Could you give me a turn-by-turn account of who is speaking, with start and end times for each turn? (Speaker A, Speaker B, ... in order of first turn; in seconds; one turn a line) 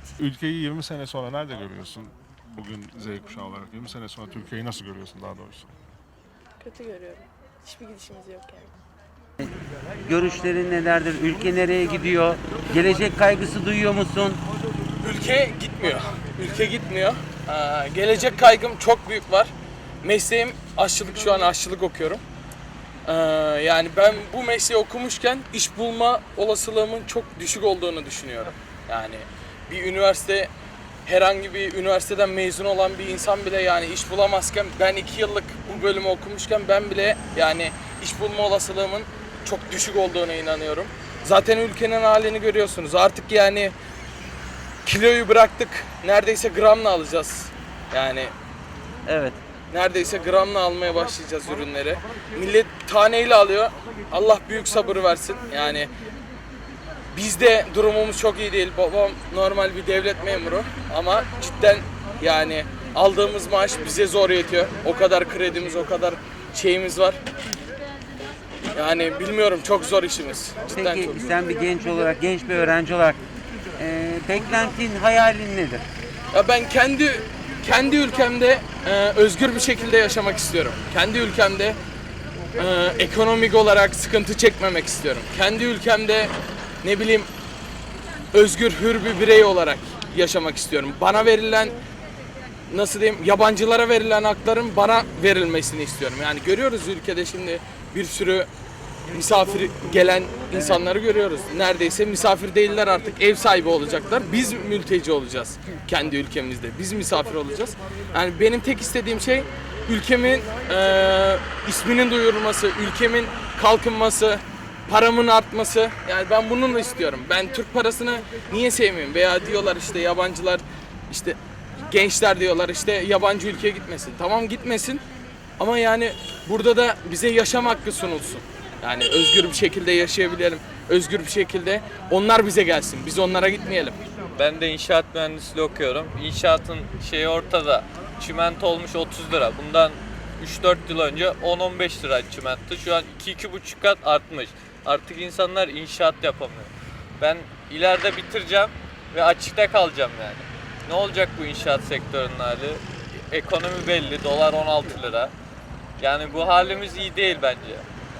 Speaker A: 0.2-5.7
Speaker B: 6.6-8.7
Speaker C: 10.0-14.4
Speaker D: 15.0-22.2
Speaker D: 23.1-30.5
Speaker D: 31.1-43.7
Speaker D: 44.8-48.3
Speaker C: 49.1-49.4
Speaker D: 49.7-55.9
Speaker D: 57.1-67.2
Speaker D: 68.7-71.3
Speaker C: 70.6-73.2
Speaker C: 73.8-75.8
Speaker D: 76.3-81.8
Speaker D: 82.5-87.3
Speaker D: 88.3-91.8
Speaker D: 92.7-98.5
Speaker D: 99.1-125.0
Speaker C: 100.6-100.8
Speaker D: 125.6-134.0
Speaker E: 134.3-155.3
Speaker E: 156.0-157.8